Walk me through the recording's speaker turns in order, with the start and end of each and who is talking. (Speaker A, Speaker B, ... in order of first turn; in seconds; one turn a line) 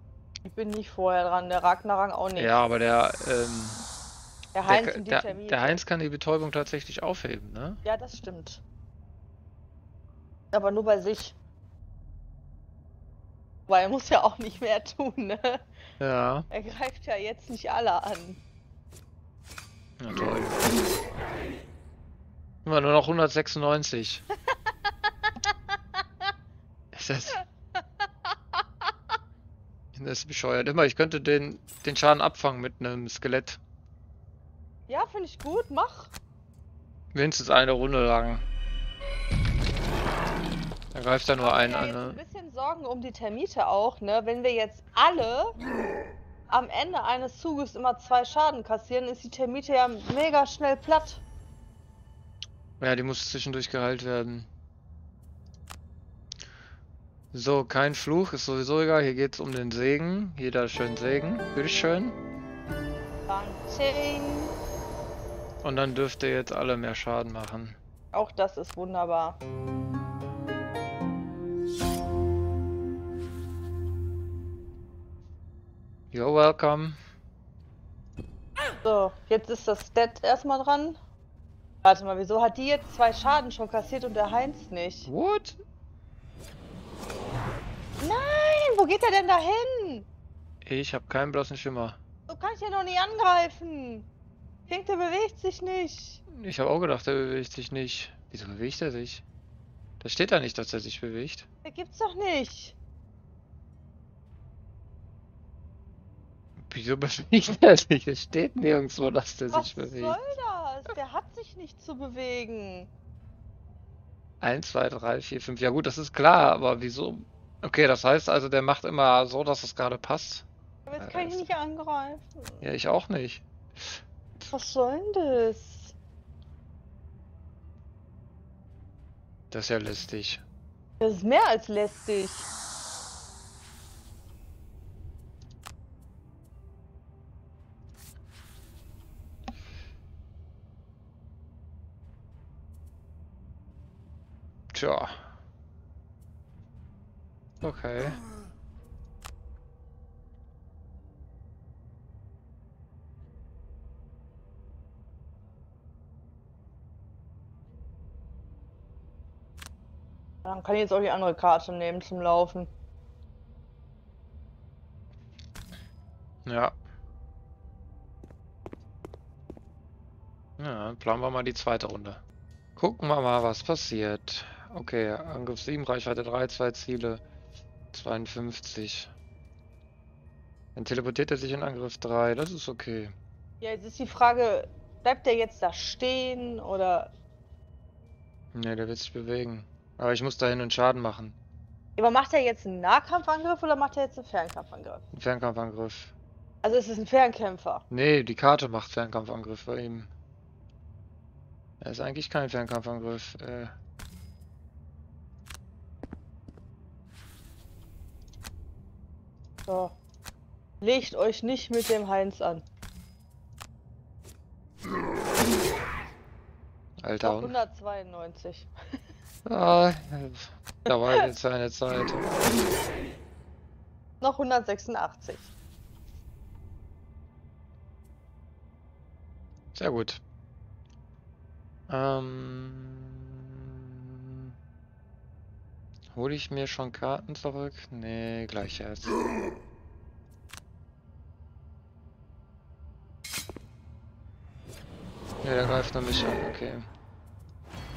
Speaker A: 0.4-2.5
Speaker B: 2.4-3.8
Speaker A: 4.5-5.8
Speaker B: 4.7-7.8
Speaker A: 7.8-8.6
Speaker A: 10.5-11.3
Speaker A: 13.7-15.6
Speaker B: 16.0-16.5
Speaker A: 16.5-18.4
Speaker B: 20.0-20.7
Speaker B: 22.6-24.2
Speaker B: 26.9-27.4
Speaker B: 29.9-33.6
Speaker A: 34.9-36.1
Speaker B: 37.1-38.4
Speaker B: 40.9-42.2
Speaker A: 41.4-45.5
Speaker A: 46.5-51.2
Speaker B: 52.8-54.5
Speaker B: 57.3-62.1
Speaker A: 63.3-64.5
Speaker B: 65.6-67.8
Speaker A: 68.1-69.4
Speaker B: 76.1-77.0
Speaker A: 78.8-81.0
Speaker A: 81.8-85.1
Speaker B: 85.0-85.6
Speaker A: 88.0-90.0
Speaker B: 90.6-92.0
Speaker A: 92.3-94.1
Speaker A: 94.7-96.2
Speaker B: 96.3-99.2
Speaker B: 100.0-101.5
Speaker A: 101.6-102.8
Speaker B: 106.6-110.2
Speaker A: 109.5-112.9
Speaker B: 114.4-120.5
Speaker A: 120.9-122.6
Speaker B: 121.0-121.5
Speaker B: 122.6-124.0
Speaker A: 124.4-125.9
Speaker B: 129.5-130.4
Speaker A: 131.0-132.5
Speaker B: 144.7-145.3
Speaker B: 147.6-148.2
Speaker A: 160.4-162.7
Speaker B: 166.4-166.7
Speaker B: 170.6-172.2
Speaker B: 172.8-177.2
Speaker B: 177.9-179.1
Speaker B: 180.7-183.1
Speaker A: 183.6-187.1
Speaker B: 188.5-191.3
Speaker A: 192.0-195.0
Speaker B: 195.1-196.1
Speaker A: 196.6-197.8
Speaker B: 197.9-200.1
Speaker B: 201.8-203.7
Speaker A: 209.7-209.9
Speaker A: 210.8-212.6
Speaker B: 217.0-217.6
Speaker A: 217.2-218.7
Speaker B: 219.4-222.3
Speaker A: 220.9-221.3
Speaker A: 224.2-225.5
Speaker B: 229.7-230.2
Speaker B: 231.9-234.5
Speaker B: 236.1-239.2
Speaker B: 245.4-246.9